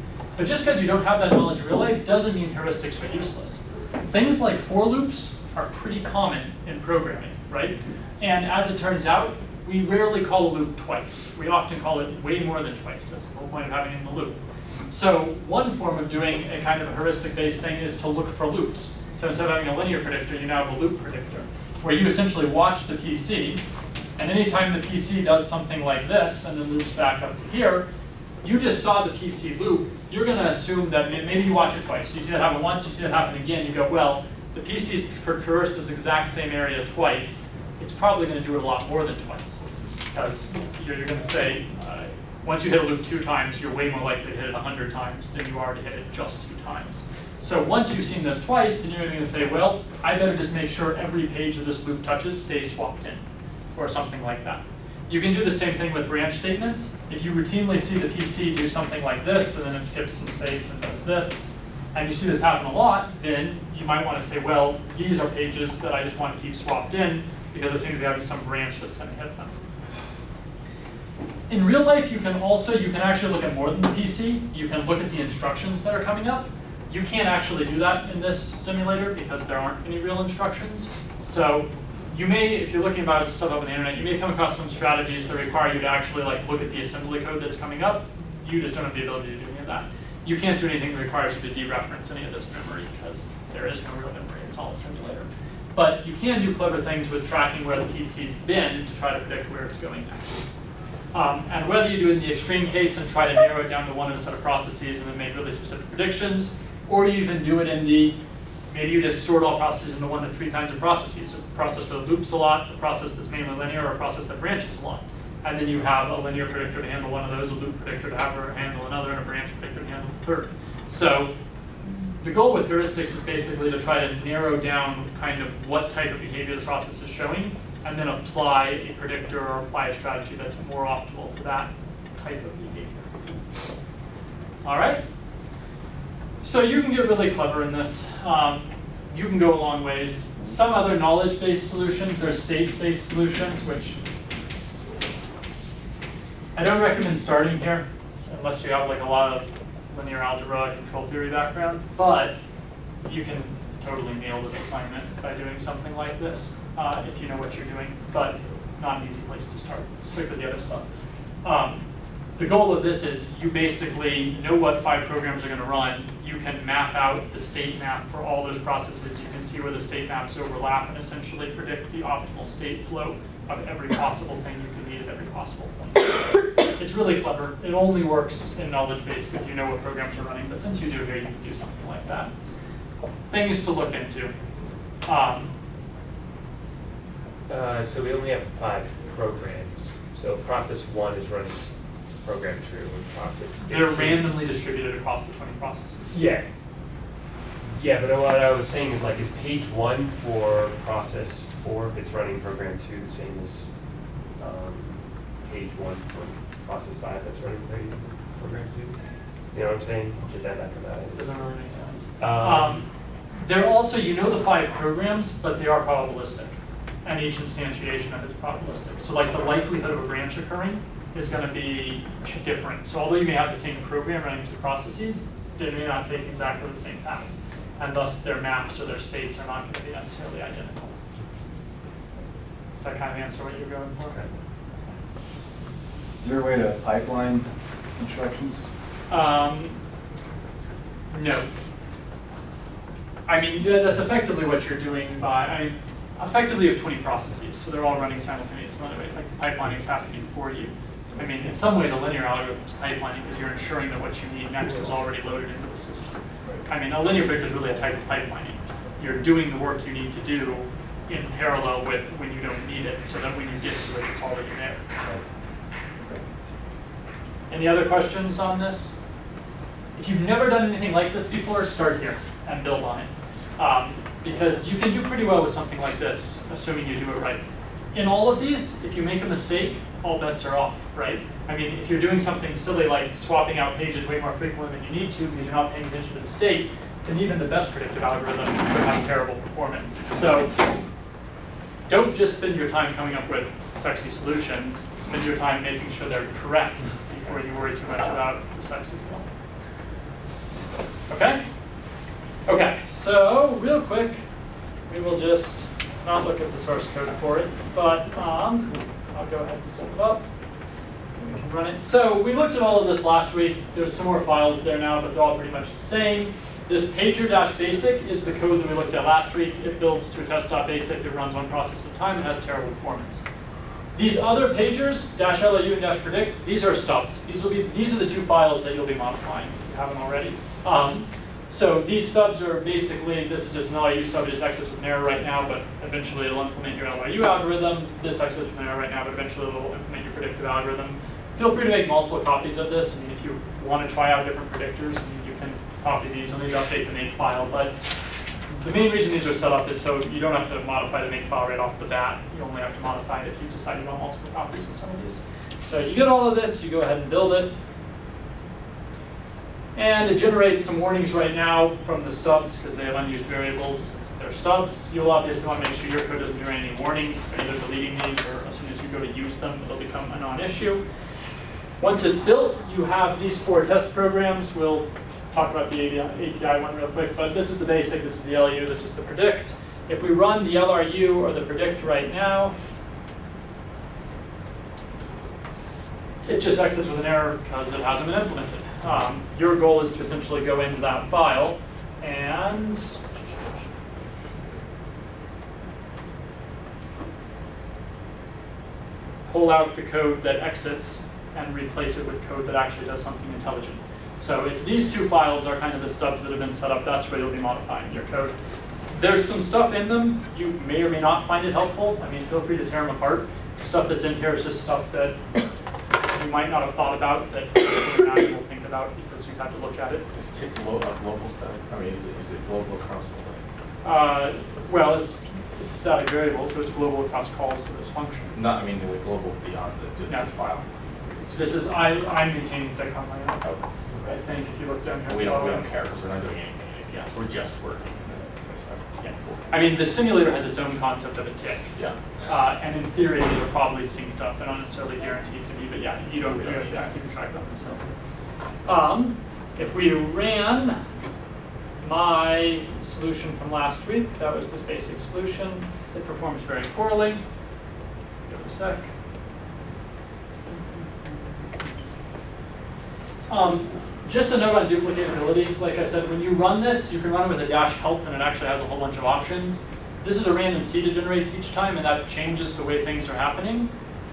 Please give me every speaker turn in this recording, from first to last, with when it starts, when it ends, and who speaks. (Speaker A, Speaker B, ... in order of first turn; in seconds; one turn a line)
Speaker A: 0.4-14.4
Speaker A: 14.9-23.6
Speaker A: 24.2-27.9
Speaker A: 28.4-53.2
Speaker A: 53.8-69.6
Speaker A: 71.5-100.5
Speaker A: 101.1-108.2
Speaker A: 108.7-121.3
Speaker A: 122.2-133.1
Speaker A: 134.6-135.0
Speaker A: 136.4-144.0
Speaker A: 146.6-152.4
Speaker A: 153.1-160.9
Speaker A: 161.4-161.8
Speaker A: 162.4-176.2
Speaker A: 176.8-182.3
Speaker A: 183.3-184.3
Speaker A: 185.1-185.5
Speaker B: 187.5-194.4
Speaker A: 193.7-196.2
Speaker B: 196.1-196.5
Speaker B: 197.7-203.7
Speaker B: 204.4-209.0
Speaker B: 209.5-211.3
Speaker A: 211.2-212.9
Speaker B: 212.2-212.8
Speaker A: 213.4-231.0
Speaker A: 232.8-234.3
Speaker C: 236.2-238.7
Speaker A: 239.1-239.8
Speaker A: 241.1-241.5
Speaker A: 243.3-264.9
Speaker A: 267.5-269.0
Speaker A: 269.9-277.4
Speaker A: 277.9-290.6
Speaker A: 291.9-299.3
Speaker A: 301.1-301.5
Speaker A: 302.5-304.2
Speaker A: 304.9-310.2
Speaker A: 311.2-323.3
Speaker A: 323.9-347.8
Speaker A: 348.5-357.5
Speaker A: 359.8-370.8
Speaker A: 371.8-382.5
Speaker A: 386.2-393.6
Speaker A: 399.3-408.3
Speaker A: 408.9-415.3
Speaker A: 416.1-420.1
Speaker D: 420.1-423.4
Speaker A: 423.8-428.3
Speaker D: 428.3-431.7
Speaker A: 431.4-433.4
Speaker A: 433.9-435.7
Speaker D: 435.1-439.7
Speaker A: 439.0-447.8
Speaker D: 446.2-446.9
Speaker A: 448.7-450.8
Speaker A: 451.8-457.2
Speaker A: 458.3-458.9
Speaker A: 463.3-473.7